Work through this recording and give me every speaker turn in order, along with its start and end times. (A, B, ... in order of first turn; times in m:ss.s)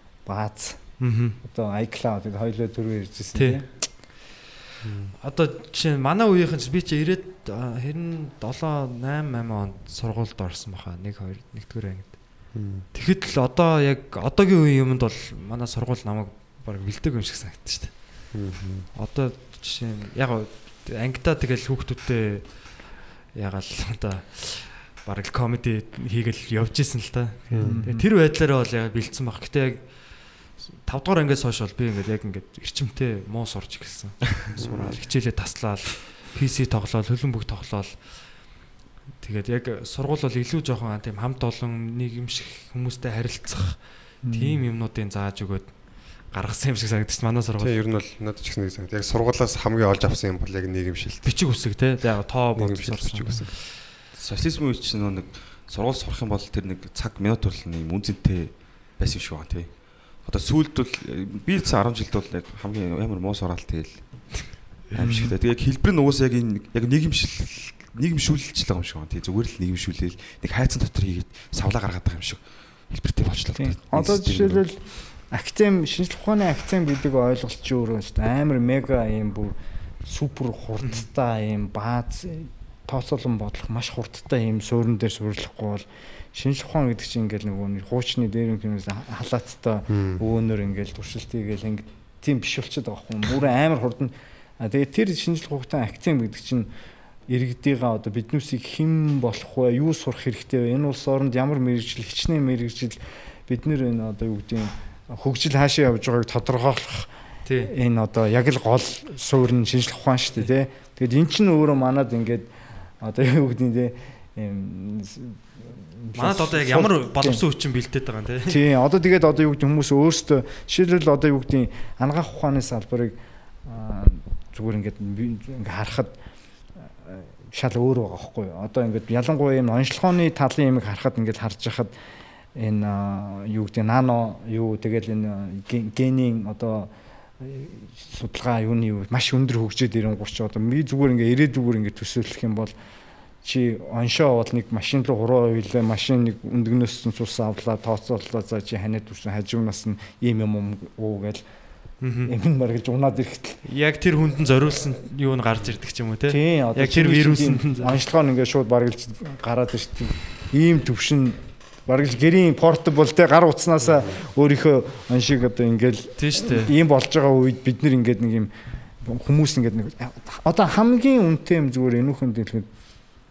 0:00.2-0:00.8 A
0:01.0-0:01.4 B
0:01.4-0:03.7 A
0:03.3-0:03.6 B
0:04.8-0:05.1 C
0:05.2-0:12.2 B
0:12.5-0:12.8 C
0:12.9-0:18.2 B
0:18.3-0:18.9 C
0:18.9-0:30.3 B
0:27.5-0:27.8 C
0:27.6-0:28.0 A
0:30.8-0:38.5 B
0:34.6-0:35.0 C
0:39.2-0:47.7 B
0:44.2-0:44.6 A
0:47.6-0:51.4 C
0:51.2-0:53.6 B
0:52.6-0:53.5 C
0:54.1-1:14.6 D
1:05.0-1:05.3 A
1:13.6-1:36.7 A
1:29.9-1:30.2 C
1:37.3-1:47.1 A
1:47.4-1:47.7 B
1:47.6-1:57.4 A
1:56.1-1:58.6 B
1:58.5-2:06.1 A
2:07.0-2:11.9 A
2:12.6-2:22.7 A
2:23.4-2:31.4 A
2:32.0-2:32.3 B
2:32.2-2:33.6 A
2:33.6-2:38.0 B
2:36.3-2:52.7 A
2:46.2-2:46.7 B